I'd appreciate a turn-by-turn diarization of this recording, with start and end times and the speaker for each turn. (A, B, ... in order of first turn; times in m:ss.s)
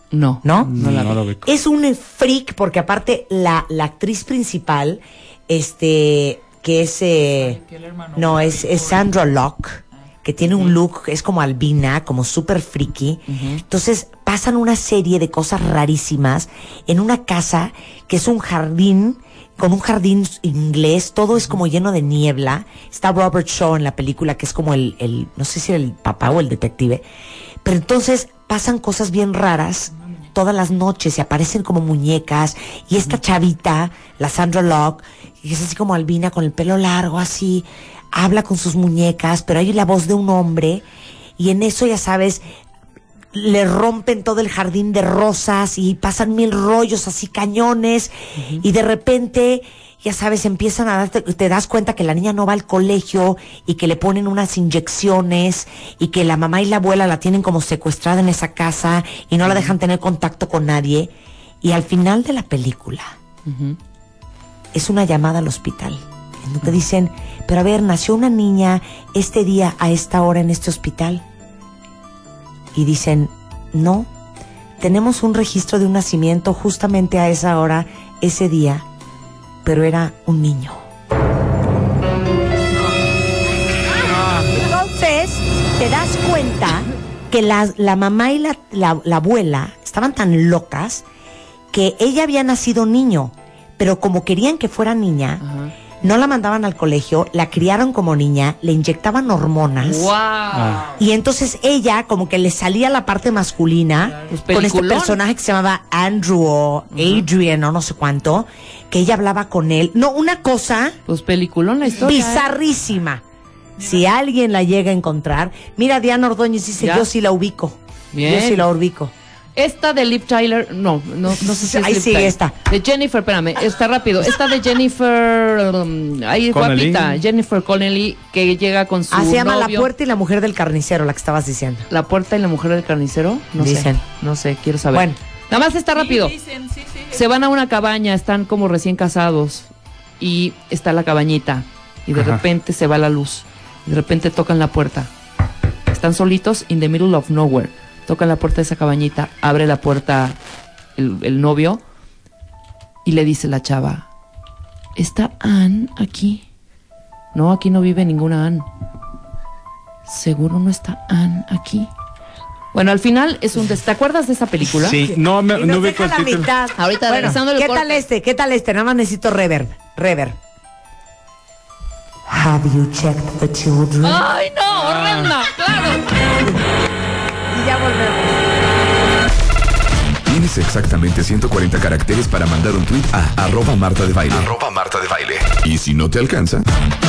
0:00.1-0:01.2 A
0:00.4-0:00.8 B
0:00.7-0:01.5 C
0:01.4-0:07.6 B
0:07.4-0:09.1 D
0:08.2-0:27.0 B
0:13.3-0:13.6 A
0:27.6-0:40.8 B
0:41.4-0:42.4 B
0:43.3-1:03.2 B
0:48.4-0:48.6 A
0:59.5-0:59.7 A
1:03.5-1:03.8 A
1:04.7-1:11.2 B
1:12.7-1:14.1 B
1:14.8-1:18.9 B
1:19.6-1:20.8 B
1:24.2-1:31.0 B
1:31.7-1:35.4 B
1:35.4-1:35.7 A
1:36.0-1:40.1 B
1:39.8-1:41.0 A
1:40.5-1:40.9 C
1:41.0-1:51.0 B
1:44.3-1:45.2 A
1:46.9-1:47.3 A
1:51.1-1:52.5 A
1:52.0-1:53.2 B
1:53.8-1:54.0 D
1:53.8-1:59.1 B
1:56.8-1:57.1 A
1:58.1-1:58.7 A
1:59.6-2:09.9 A
2:01.4-2:02.6 B
2:06.5-2:07.2 C
2:09.1-2:11.9 B
2:11.9-2:16.4 A
2:13.6-2:14.0 B
2:14.9-2:15.2 B
2:16.0-2:17.2 D
2:17.1-2:25.1 A
2:22.2-2:22.4 C
2:25.9-2:30.4 A
2:31.0-2:31.8 A
2:33.0-2:34.1 A
2:35.0-2:36.4 A
2:37.3-2:38.7 A
2:40.1-2:41.9 A
2:42.7-2:45.0 A
2:44.7-2:46.5 C
2:45.0-2:50.4 B
2:46.8-2:48.0 A
2:52.3-2:54.2 B
2:54.0-2:56.2 A
2:54.7-2:55.4 C
2:57.5-2:58.6 B
3:00.3-3:06.7 E